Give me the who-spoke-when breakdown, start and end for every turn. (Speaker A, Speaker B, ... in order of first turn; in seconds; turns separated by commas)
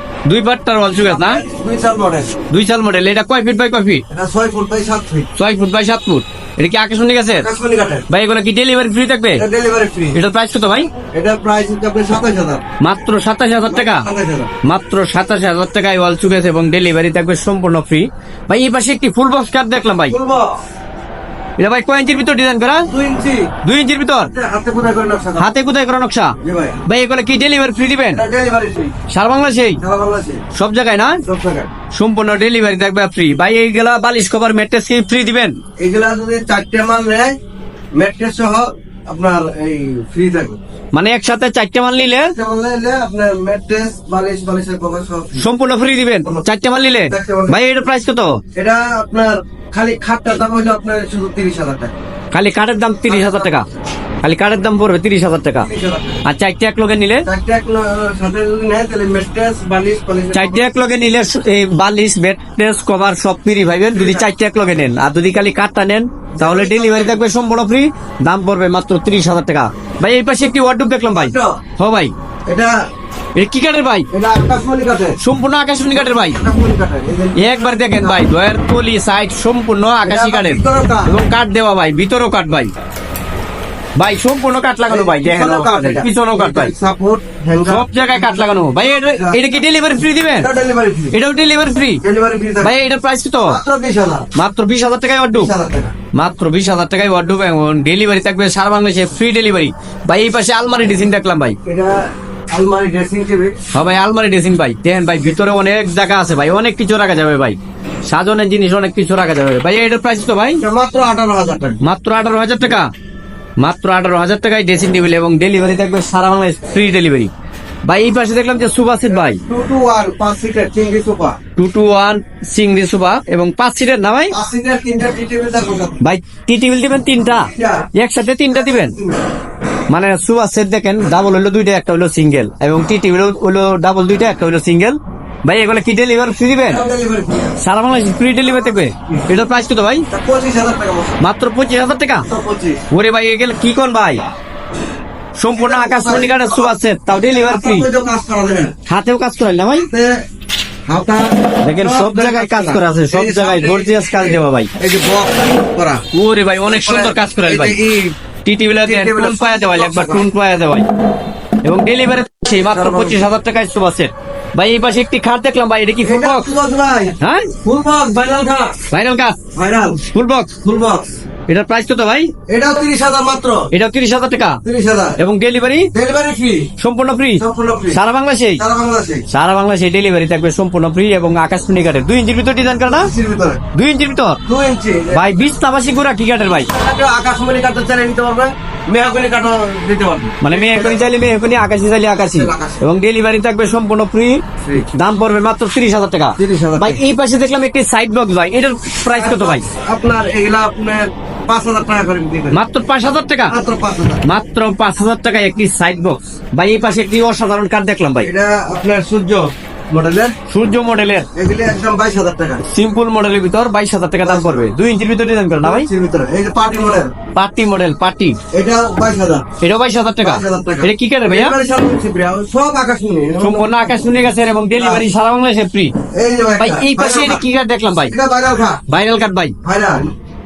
Speaker A: 0.2-1.4, Speaker B: 1.0-2.4, Speaker A: 2.5-4.0, Speaker B: 4.1-5.3, Speaker A: 5.3-7.5, Speaker B: 7.4-8.1, Speaker A: 8.1-9.4, Speaker B: 9.4-10.2, Speaker A: 10.1-10.9, Speaker B: 11.1-12.6, Speaker A: 12.8-14.1, Speaker B: 13.7-14.5, Speaker A: 14.6-20.2, Speaker B: 20.1-20.5, Speaker A: 21.6-22.9, Speaker B: 22.9-23.5, Speaker A: 23.6-24.3, Speaker B: 24.3-25.5, Speaker A: 25.4-26.3, Speaker B: 26.4-26.8, Speaker A: 26.9-28.2, Speaker B: 28.1-28.9, Speaker A: 29.1-29.8, Speaker B: 29.8-30.4, Speaker A: 30.5-31.2, Speaker B: 31.2-31.7, Speaker A: 31.9-35.6, Speaker B: 35.8-37.4, Speaker B: 38.0-40.6, Speaker A: 40.9-42.3, Speaker B: 42.3-45.5, Speaker A: 45.4-48.4, Speaker B: 47.1-47.6, Speaker B: 48.5-51.9, Speaker A: 52.3-53.6, Speaker B: 53.1-53.5, Speaker A: 54.2-55.7, Speaker B: 55.6-56.2, Speaker A: 56.2-57.2, Speaker B: 57.2-60.7, Speaker A: 60.3-72.1, Speaker B: 63.9-64.3, Speaker B: 66.4-67.2, Speaker B: 71.1-71.6, Speaker B: 72.5-72.8, Speaker A: 73.3-74.1, Speaker B: 74.1-75.2, Speaker A: 75.2-76.4, Speaker B: 75.9-78.2, Speaker A: 77.3-82.7, Speaker B: 80.0-81.1, Speaker A: 84.0-86.7, Speaker B: 84.9-89.4, Speaker A: 87.7-90.5, Speaker B: 90.4-91.2, Speaker A: 91.1-92.0, Speaker B: 92.0-92.7, Speaker A: 92.6-93.6, Speaker B: 93.4-94.2, Speaker A: 94.3-95.5, Speaker B: 95.3-95.9, Speaker A: 96.1-101.6, Speaker B: 101.7-103.5, Speaker A: 103.7-107.6, Speaker A: 108.1-110.6, Speaker B: 110.6-111.8, Speaker A: 111.8-112.9, Speaker A: 113.6-117.3, Speaker A: 117.8-119.4, Speaker B: 119.1-121.4, Speaker A: 121.5-124.3, Speaker B: 124.3-126.0, Speaker A: 126.0-128.9, Speaker B: 127.3-127.9, Speaker B: 128.5-129.2, Speaker A: 129.9-136.8, Speaker B: 136.7-137.6, Speaker A: 137.6-140.1, Speaker B: 140.1-141.2, Speaker A: 141.2-142.2, Speaker B: 142.2-142.8, Speaker A: 142.9-144.2, Speaker A: 145.4-147.9, Speaker B: 145.5-146.7, Speaker B: 147.3-148.7, Speaker A: 148.9-149.9, Speaker B: 149.8-150.2, Speaker B: 150.9-156.0, Speaker A: 151.6-154.7, Speaker A: 156.1-157.8, Speaker B: 156.7-158.1, Speaker A: 158.4-160.8, Speaker B: 158.8-160.3, Speaker A: 161.6-166.5, Speaker B: 162.6-163.3, Speaker B: 166.0-168.8, Speaker A: 167.2-167.5, Speaker A: 168.9-169.4, Speaker B: 169.5-170.0, Speaker A: 170.1-170.6, Speaker B: 170.6-171.1, Speaker A: 171.5-172.3, Speaker B: 172.5-173.7, Speaker A: 173.7-174.6, Speaker B: 174.6-175.2, Speaker A: 175.2-175.9, Speaker B: 175.9-176.7, Speaker A: 176.8-178.6, Speaker B: 177.4-178.0, Speaker B: 178.6-179.2, Speaker A: 179.3-183.1, Speaker B: 182.9-183.6, Speaker A: 183.7-184.4, Speaker B: 184.5-185.3, Speaker A: 185.1-186.7, Speaker B: 186.7-191.0, Speaker A: 190.4-199.6, Speaker B: 192.2-192.8, Speaker B: 194.6-194.9, Speaker B: 196.4-197.0, Speaker B: 199.1-202.6, Speaker A: 202.5-203.6, Speaker B: 203.5-204.2, Speaker A: 204.2-208.3, Speaker B: 208.2-210.3, Speaker A: 210.5-211.3, Speaker B: 211.3-212.6, Speaker A: 212.7-215.9, Speaker B: 214.2-214.7, Speaker B: 215.6-217.1, Speaker A: 217.3-218.4, Speaker B: 218.5-219.4, Speaker A: 219.6-221.5, Speaker B: 220.2-225.1, Speaker A: 223.4-225.9, Speaker B: 226.1-227.4, Speaker A: 226.6-228.1, Speaker B: 228.1-228.8, Speaker A: 228.9-229.5, Speaker B: 229.6-230.1